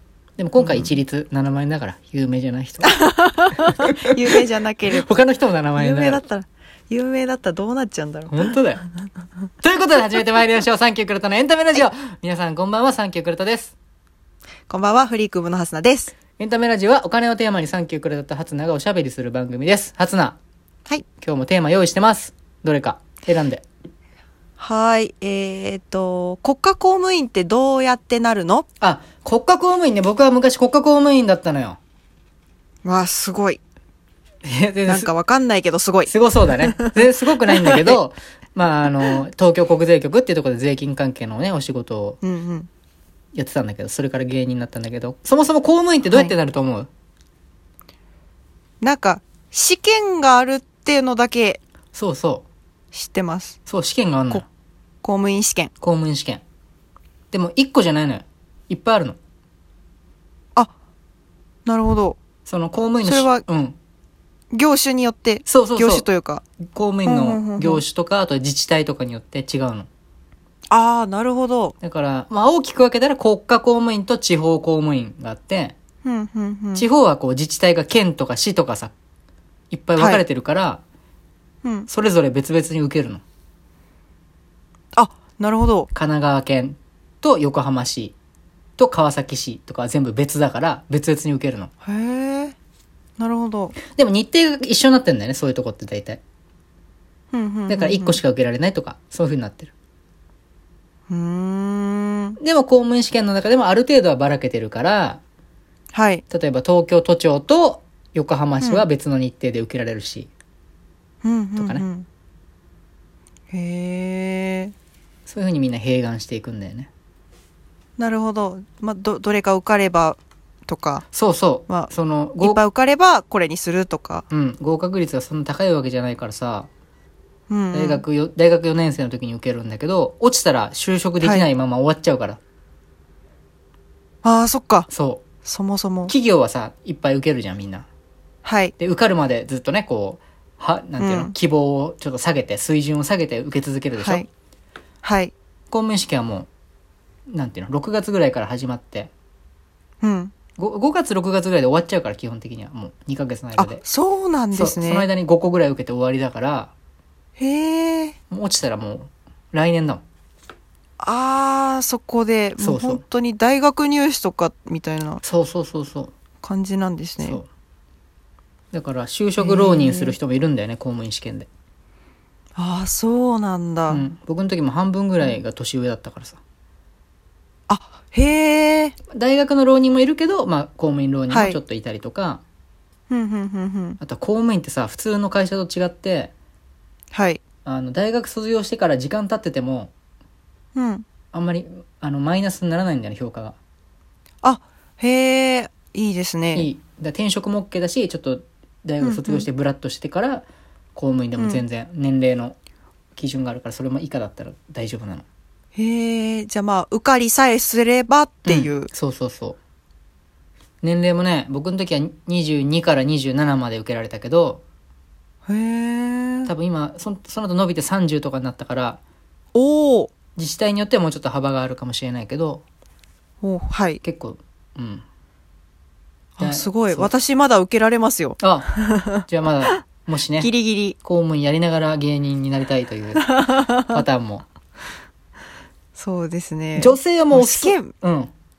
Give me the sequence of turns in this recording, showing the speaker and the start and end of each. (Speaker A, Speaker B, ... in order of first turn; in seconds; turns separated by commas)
Speaker A: 0.4-3.0, Speaker B: 0.6-0.9, Speaker B: 2.9-5.1, Speaker A: 3.8-4.4, Speaker A: 4.9-6.2, Speaker B: 5.7-8.5, Speaker A: 8.3-8.8, Speaker A: 9.6-13.7, Speaker B: 14.7-16.1, Speaker A: 16.4-20.4, Speaker A: 21.2-23.6, Speaker B: 24.6-28.7, Speaker A: 28.8-31.8, Speaker B: 32.8-33.6, Speaker A: 34.4-35.1, Speaker B: 34.9-38.0, Speaker A: 36.1-42.2, Speaker B: 42.2-42.7, Speaker A: 43.3-46.9, Speaker B: 48.8-51.6, Speaker A: 51.9-52.4, Speaker B: 52.9-53.6, Speaker A: 53.7-54.5, Speaker B: 55.0-55.7, Speaker A: 55.8-56.4, Speaker A: 57.3-59.2, Speaker B: 61.6-62.2, Speaker A: 62.5-63.8, Speaker B: 63.0-63.4, Speaker B: 64.5-66.4, Speaker A: 65.5-66.1, Speaker A: 66.6-69.9, Speaker B: 67.0-67.8, Speaker B: 70.7-71.7, Speaker A: 71.8-75.7, Speaker B: 76.0-76.9, Speaker A: 76.8-78.9, Speaker A: 79.7-80.8, Speaker B: 80.0-80.2, Speaker B: 81.6-81.9, Speaker A: 81.9-83.2, Speaker B: 85.0-85.9, Speaker A: 85.9-88.1, Speaker A: 88.8-91.7, Speaker B: 91.8-92.5, Speaker B: 93.2-93.8, Speaker A: 93.9-96.2, Speaker B: 97.3-98.2, Speaker A: 97.7-99.7, Speaker B: 101.1-102.4, Speaker A: 102.4-105.2, Speaker B: 105.9-106.2, Speaker A: 106.3-110.3, Speaker B: 111.2-112.1, Speaker A: 111.6-111.8, Speaker B: 113.5-114.7, Speaker A: 115.3-116.9, Speaker B: 118.0-121.0, Speaker A: 121.1-122.6, Speaker B: 121.7-124.2, Speaker A: 124.3-126.7, Speaker B: 127.5-128.0, Speaker A: 127.7-132.4, Speaker B: 131.2-131.5, Speaker B: 134.2-134.9, Speaker A: 134.9-135.2, Speaker B: 135.4-136.1, Speaker A: 136.1-137.9, Speaker B: 138.4-138.7, Speaker A: 138.8-144.2, Speaker B: 141.0-141.3, Speaker B: 144.0-144.3, Speaker B: 145.0-145.3, Speaker A: 145.7-146.5, Speaker A: 147.3-149.1, Speaker B: 150.0-150.3, Speaker A: 150.6-153.8, Speaker B: 153.6-155.1, Speaker A: 154.5-156.7, Speaker B: 157.4-158.2, Speaker A: 158.3-160.0, Speaker B: 161.0-165.2, Speaker A: 162.6-163.0, Speaker A: 165.2-166.1, Speaker B: 166.4-167.4, Speaker A: 167.2-167.5, Speaker A: 168.7-171.5, Speaker B: 169.4-170.2, Speaker B: 172.6-174.0, Speaker A: 173.9-176.4, Speaker B: 177.7-178.9, Speaker A: 179.1-182.4, Speaker B: 181.3-181.6, Speaker B: 183.1-184.0, Speaker A: 184.0-186.3, Speaker B: 187.1-187.4, Speaker A: 187.6-189.9, Speaker B: 190.7-191.1, Speaker A: 191.3-193.6, Speaker B: 194.4-196.7, Speaker A: 196.5-202.6, Speaker B: 199.0-199.4, Speaker B: 201.4-201.6, Speaker A: 203.2-205.2, Speaker B: 205.7-208.9, Speaker A: 208.4-209.6, Speaker A: 210.8-214.6, Speaker B: 215.5-216.5, Speaker A: 216.4-219.0, Speaker B: 219.5-220.1, Speaker A: 220.3-222.6, Speaker B: 223.4-224.0, Speaker A: 224.0-225.0, Speaker B: 226.4-229.8, Speaker A: 226.4-227.1, Speaker A: 228.4-228.7, Speaker A: 229.2-230.5, Speaker B: 230.4-231.0, Speaker A: 231.0-234.4, Speaker B: 233.2-234.0, Speaker B: 235.9-237.9, Speaker A: 236.8-238.3